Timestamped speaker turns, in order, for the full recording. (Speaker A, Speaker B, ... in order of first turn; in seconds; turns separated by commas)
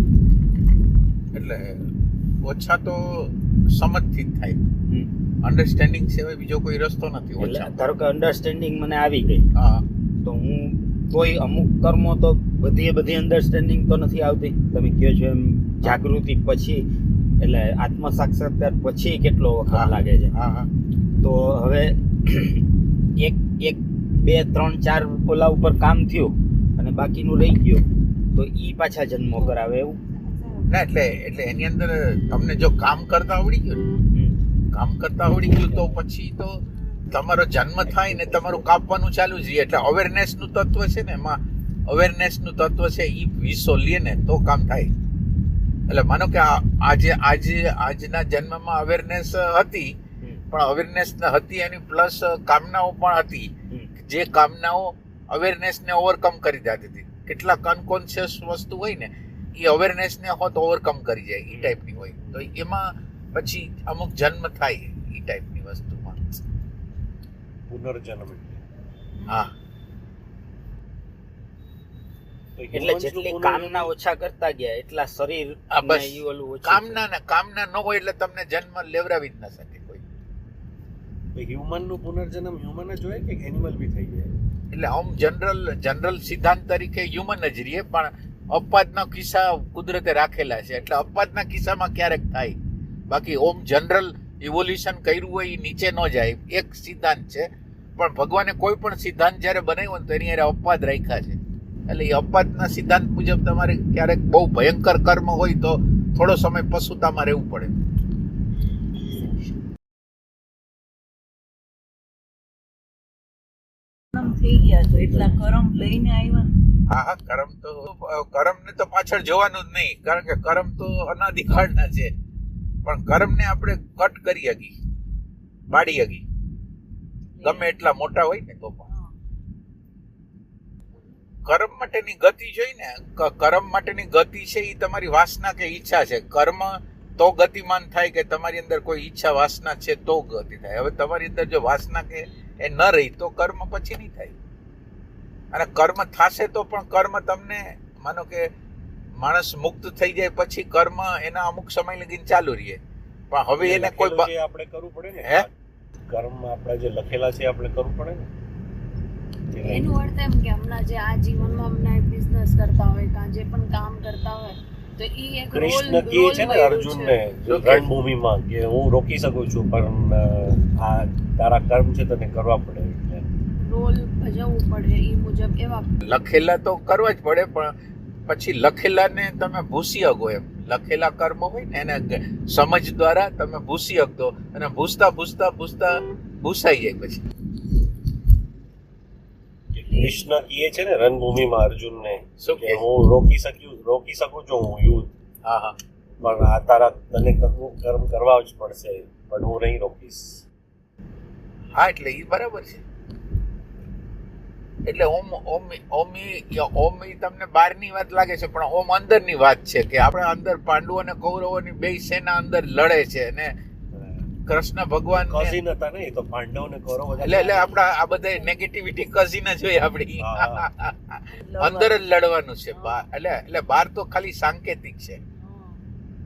Speaker A: 1.3-1.9, Speaker A: 2.4-4.6, Speaker A: 5.4-7.7, Speaker B: 7.4-9.4, Speaker A: 9.5-9.8, Speaker B: 10.2-16.8, Speaker B: 17.4-20.3, Speaker A: 19.7-20.7, Speaker B: 21.2-30.0, Speaker A: 30.7-33.9, Speaker A: 34.7-36.6, Speaker A: 37.1-44.9, Speaker C: 37.8-38.7, Speaker A: 45.9-50.0, Speaker A: 50.5-66.4, Speaker B: 61.5-61.8, Speaker C: 67.7-68.6, Speaker C: 72.6-73.9, Speaker B: 72.7-77.0, Speaker A: 75.7-80.0, Speaker C: 81.3-84.3, Speaker A: 84.7-92.6, Speaker A: 93.1-107.8, Speaker D: 114.1-116.6, Speaker A: 116.9-122.1, Speaker A: 122.8-124.7, Speaker A: 125.7-126.2, Speaker D: 127.4-127.8, Speaker A: 127.4-128.9, Speaker A: 131.4-144.3, Speaker A: 145.5-148.5, Speaker A: 149.2-152.8, Speaker A: 153.3-154.3, Speaker C: 153.6-155.5, Speaker A: 155.2-155.5, Speaker C: 156.1-158.3, Speaker C: 159.5-160.0, Speaker E: 159.6-167.2, Speaker C: 165.5-173.3, Speaker A: 167.5-167.9, Speaker E: 173.7-175.9, Speaker A: 176.1-177.7, Speaker A: 178.3-187.2, Speaker C: 189.7-195.1, Speaker A: 192.4-192.8, Speaker A: 195.4-195.8, Speaker C: 196.2-200.4, Speaker A: 201.7-202.8, Speaker A: 204.8-213.5, Speaker C: 213.9-214.3, Speaker A: 214.5-215.6, Speaker C: 215.1-217.8, Speaker A: 217.2-225.2, Speaker D: 217.3-218.5, Speaker C: 220.2-220.7, Speaker D: 221.4-222.0, Speaker D: 222.7-223.0, Speaker D: 225.4-225.8